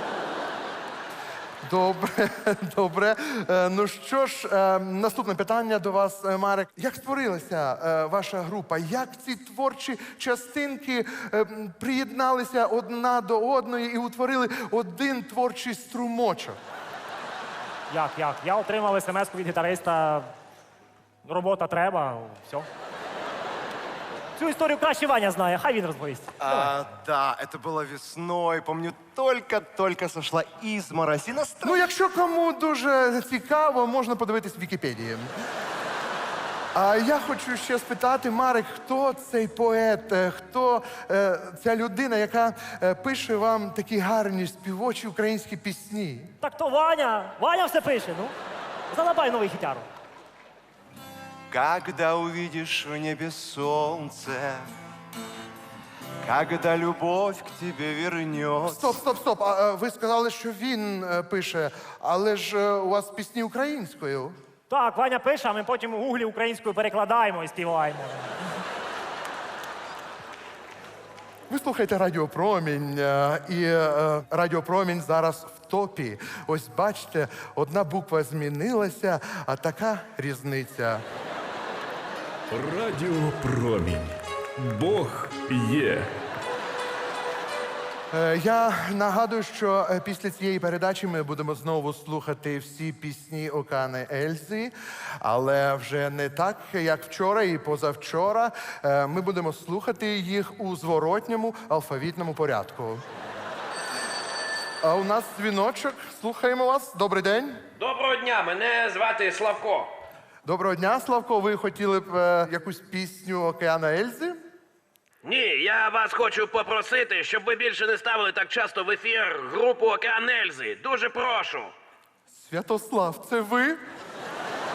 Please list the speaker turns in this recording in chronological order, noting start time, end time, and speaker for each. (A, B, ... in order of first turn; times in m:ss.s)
0:01.6-0:16.6 A
0:17.9-0:20.3 B
0:21.2-0:22.7 B
0:24.4-0:26.7 B
0:26.4-0:31.8 C
0:31.6-0:35.3 A
0:36.7-0:46.3 A
0:46.4-0:48.3 B
0:48.9-0:49.9 B
0:51.5-0:54.7 C
0:56.2-0:59.0 C
0:58.6-1:04.4 A
1:04.7-1:08.3 B
1:11.5-1:21.0 A
1:22.5-1:26.1 D
1:28.1-1:43.0 A
1:44.8-1:47.6 A
1:47.8-1:49.9 E
1:50.4-1:54.4 A
1:55.2-2:01.7 E
2:02.3-2:03.8 A